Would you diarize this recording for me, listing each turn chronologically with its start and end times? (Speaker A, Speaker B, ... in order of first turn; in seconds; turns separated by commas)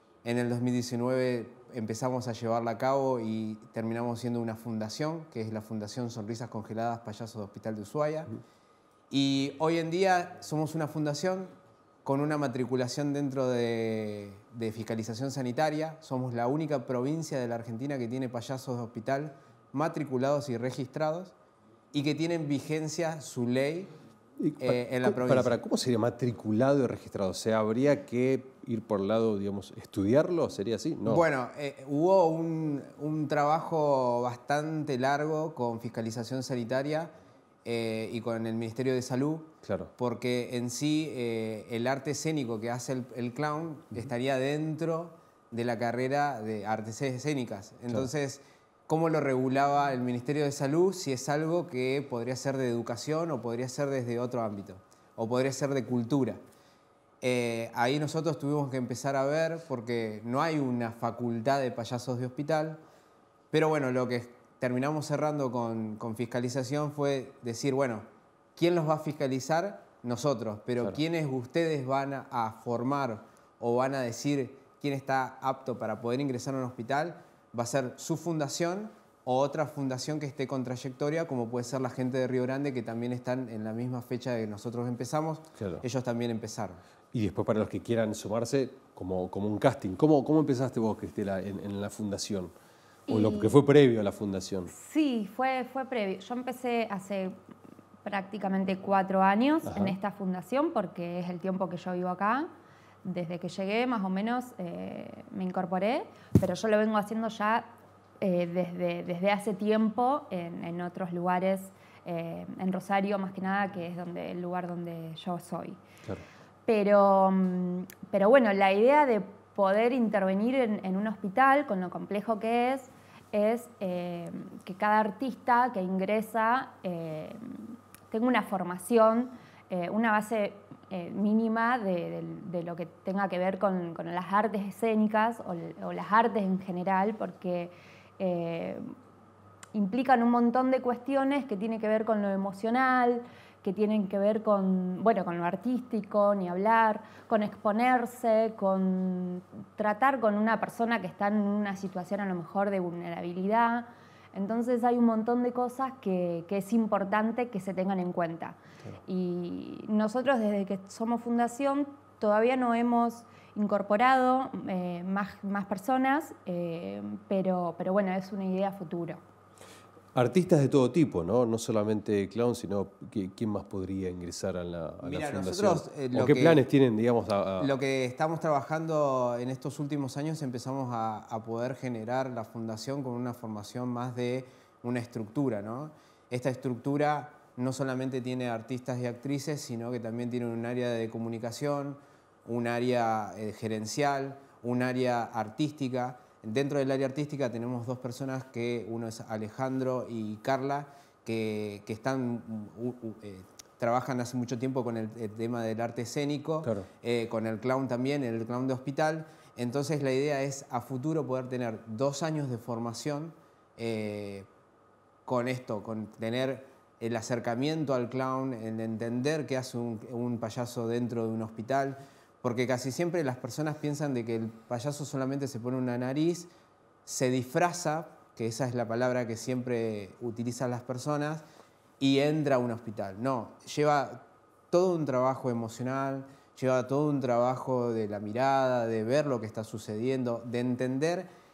Speaker A: 0.2-8.3, Speaker A: 9.1-21.3, Speaker A: 21.9-23.9, Speaker B: 24.4-31.2, Speaker A: 24.6-25.6, Speaker A: 31.0-37.1, Speaker A: 37.6-56.4, Speaker B: 39.6-39.9, Speaker A: 57.2-62.8, Speaker A: 63.5-86.8, Speaker B: 85.6-85.8, Speaker B: 87.1-92.5, Speaker C: 93.1-93.6, Speaker B: 93.1-94.7, Speaker C: 94.7-97.4, Speaker C: 98.0-102.5, Speaker B: 99.6-100.0, Speaker C: 103.0-115.8, Speaker C: 116.7-138.9, Speaker C: 139.7-169.2, Speaker B: 170.1-177.8, Speaker A: 175.0-176.6, Speaker A: 177.6-214.5, Speaker A: 215.2-226.5, Speaker A: 227.1-231.4, Speaker A: 232.0-241.3